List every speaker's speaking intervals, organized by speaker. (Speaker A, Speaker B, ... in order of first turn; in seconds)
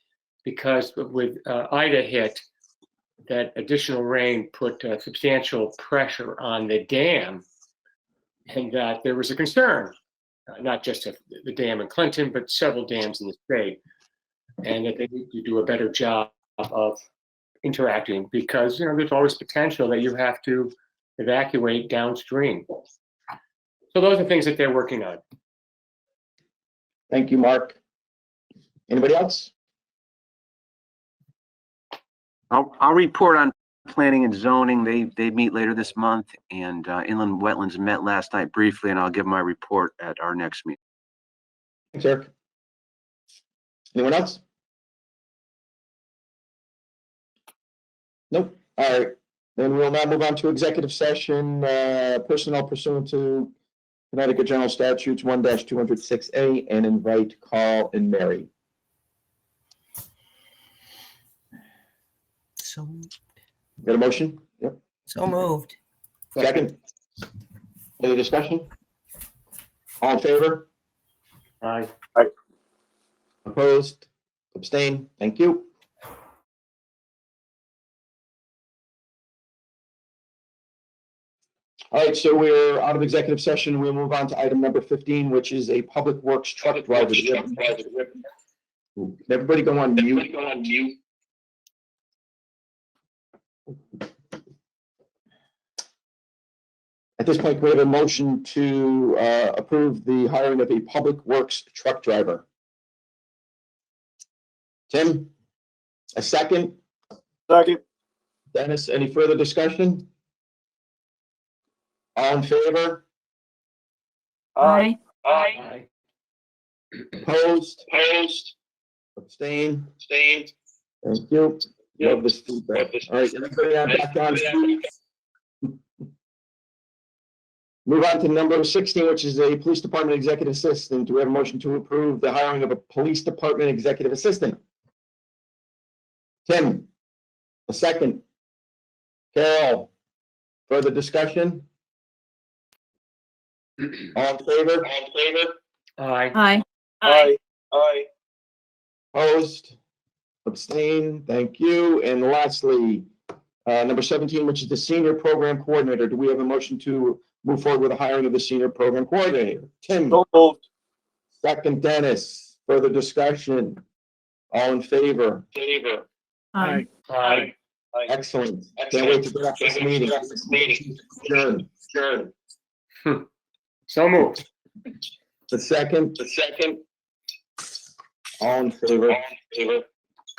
Speaker A: 0.4-2.4, 3.2-7.4, 8.5-9.9, 10.5-13.8, 14.6-17.0, 17.6-22.7, 23.9-25.2, 71.6-71.9, 115.5-115.8, 146.0-146.4, 167.1-167.5, 173.9-174.4
Speaker B: 27.1-27.8, 28.9-29.5, 41.9-42.3, 43.9-44.4, 48.3-53.5, 54.1-58.5, 63.8-64.8, 66.3-66.8, 68.0-68.7, 70.0-70.7, 73.4-75.7, 81.9-87.6, 89.0-90.3, 97.2-102.4, 104.9-105.3, 106.2-106.8, 108.5-110.1, 112.2-113.0, 117.2-117.9, 119.2-119.9, 121.0-124.8, 127.8-134.6, 136.4-136.9, 137.7-138.2, 139.3-139.9, 140.7-141.7, 144.1-144.9, 149.1-149.7, 150.4-153.1, 153.7-160.2, 161.4-163.8, 164.5-165.5, 168.1-171.8, 175.5-176.3, 178.4-179.2
Speaker C: 32.5-40.8, 62.6-63.1, 65.1-65.7
Speaker D: 86.7-88.1, 90.2-90.9, 107.5-107.8, 114.5-115.5, 117.9-118.5, 120.0-120.5, 122.0-123.0, 124.3-124.7, 144.9-145.5, 147.0-148.1, 160.1-160.6, 165.6-166.0, 166.6-168.1, 170.2-170.8, 171.9-172.3, 176.4-176.8, 179.1-179.8
Speaker E: 114.6-115.5, 146.3-147.3, 166.5-166.8